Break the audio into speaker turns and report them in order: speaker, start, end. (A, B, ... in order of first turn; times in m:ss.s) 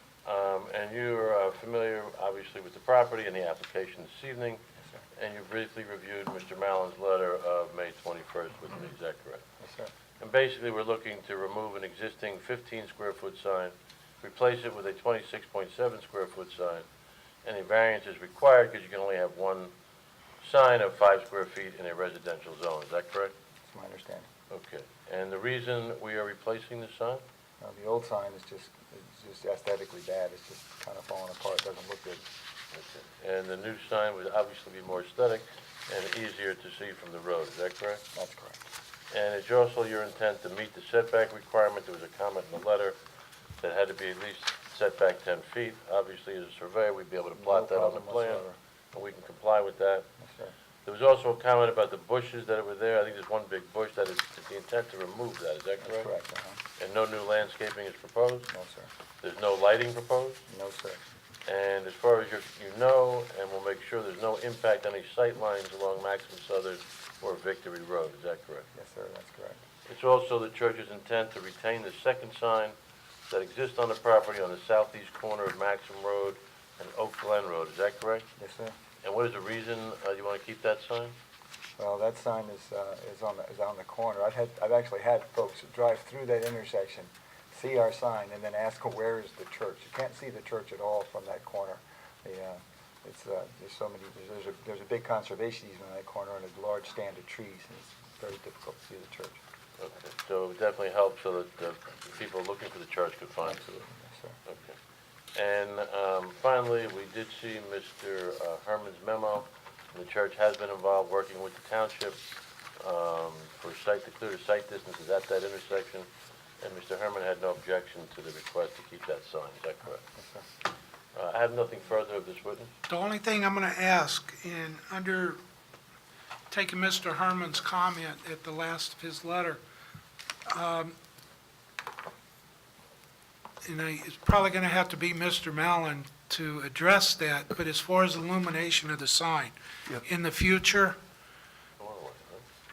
0:00.2-0:04.6 A
0:05.1-0:09.4 A
0:09.6-0:09.9 B
0:10.2-0:16.8 A
0:17.4-0:19.7 A
0:20.4-0:23.3 A
0:23.6-0:24.3 B
0:24.5-0:27.2 A
0:27.6-0:32.2 B
0:32.7-0:38.0 A
0:38.1-0:38.6 B
0:39.1-0:43.0 A
0:43.6-0:50.0 A
0:47.4-0:48.6 B
0:50.2-0:50.5 B
0:50.8-0:56.1 A
0:55.8-0:56.6 B
0:56.8-0:58.5 A
0:58.5-0:58.9 B
0:59.2-1:00.4 A
1:00.5-1:01.0 B
1:01.4-1:08.6 A
1:08.7-1:09.6 B
1:09.8-1:12.7 A
1:13.3-1:18.3 A
1:18.4-1:18.8 B
1:19.0-1:21.1 A
1:21.8-1:39.4 B
1:39.8-1:43.7 A
1:43.4-1:44.4 B
1:44.4-1:44.8 A
1:45.3-1:52.2 A
1:52.8-1:56.1 A
1:56.6-2:00.0 A
2:00.1-2:00.4 B
2:01.2-2:02.7 A
2:02.9-2:05.4 C
2:06.5-2:09.6 C
2:10.5-2:10.9 C
2:13.6-2:21.0 C
2:21.8-2:22.4 A